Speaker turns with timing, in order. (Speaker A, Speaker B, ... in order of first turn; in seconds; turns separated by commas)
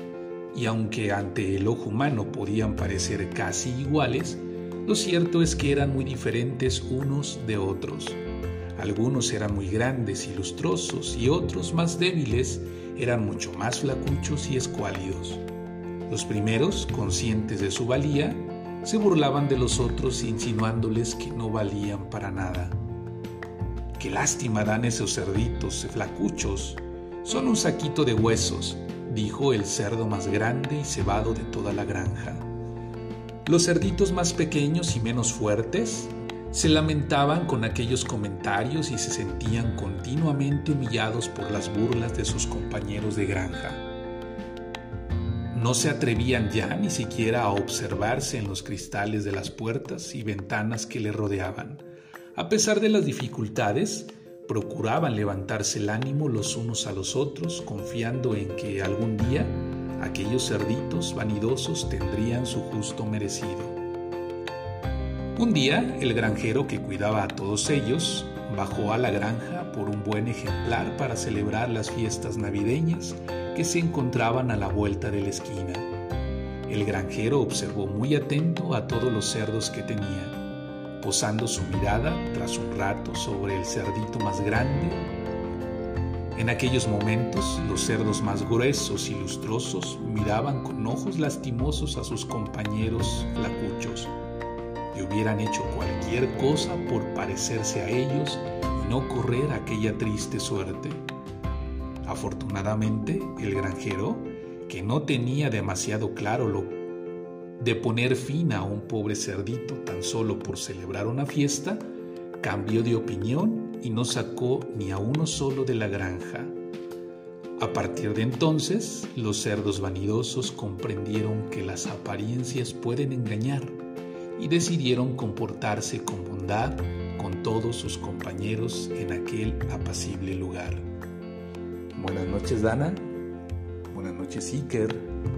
Speaker A: 0.5-8.2, Speaker A: 8.8-15.4, Speaker A: 16.1-22.8, Speaker A: 24.0-32.5, Speaker A: 33.5-43.8, Speaker A: 45.5-51.8, Speaker A: 52.3-63.8, Speaker A: 65.4-75.9, Speaker A: 76.7-80.4, Speaker A: 81.0-85.1, Speaker A: 86.3-94.1, Speaker A: 94.9-101.0, Speaker A: 102.0-106.8, Speaker A: 107.6-111.9, Speaker A: 112.4-116.6, Speaker A: 117.6-123.8, Speaker A: 124.4-130.9, Speaker A: 131.9-133.1, Speaker A: 133.9-135.1